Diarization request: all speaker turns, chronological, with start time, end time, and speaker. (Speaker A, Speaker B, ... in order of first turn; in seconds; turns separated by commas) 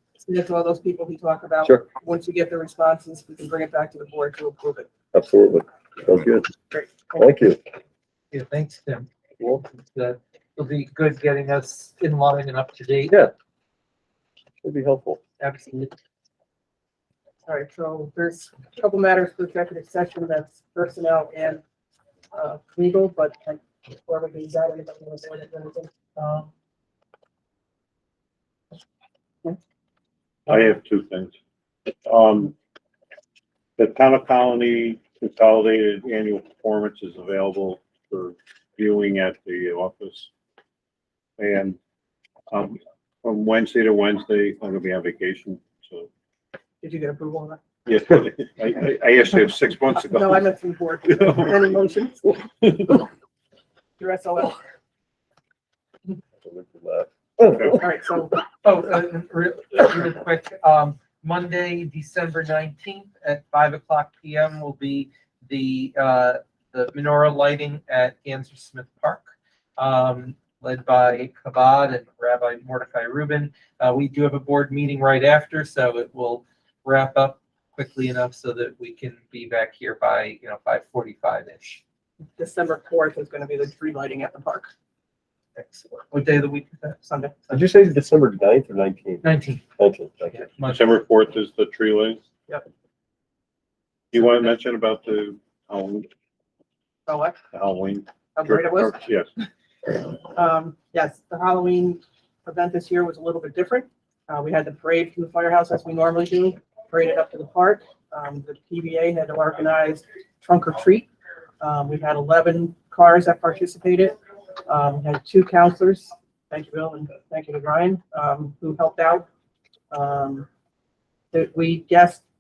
Speaker A: 0.2-4.9, Speaker B: 5.1-6.5, Speaker A: 6.7-7.2, Speaker B: 7.2-7.6, Speaker C: 8.3-9.1, Speaker C: 9.6-13.2, Speaker B: 14.6-15.2, Speaker C: 15.4-15.9, Speaker A: 17.4-21.6, Speaker A: 22.3-26.5, Speaker D: 30.5-31.3, Speaker D: 32.0-32.5, Speaker D: 33.8-40.3, Speaker D: 41.4-41.8, Speaker D: 42.5-46.1, Speaker A: 46.8-47.6, Speaker D: 47.9-50.4, Speaker A: 50.1-52.3, Speaker D: 51.2-51.6, Speaker A: 54.0-54.6, Speaker B: 56.4-57.8, Speaker A: 57.7-58.4, Speaker C: 58.6-81.8, Speaker A: 82.4-84.7, Speaker A: 86.1-87.6, Speaker B: 87.5-89.2, Speaker C: 89.2-89.6, Speaker B: 89.8-90.5, Speaker C: 90.6-90.9, Speaker D: 90.7-92.2, Speaker D: 94.1-96.1, Speaker A: 97.1-97.4, Speaker D: 97.5-99.3, Speaker A: 98.4-99.0, Speaker A: 100.3-111.1, Speaker A: 111.6-114.2, Speaker A: 114.7-119.3, Speaker A: 119.9-120.5, Speaker A: 121.3-122.2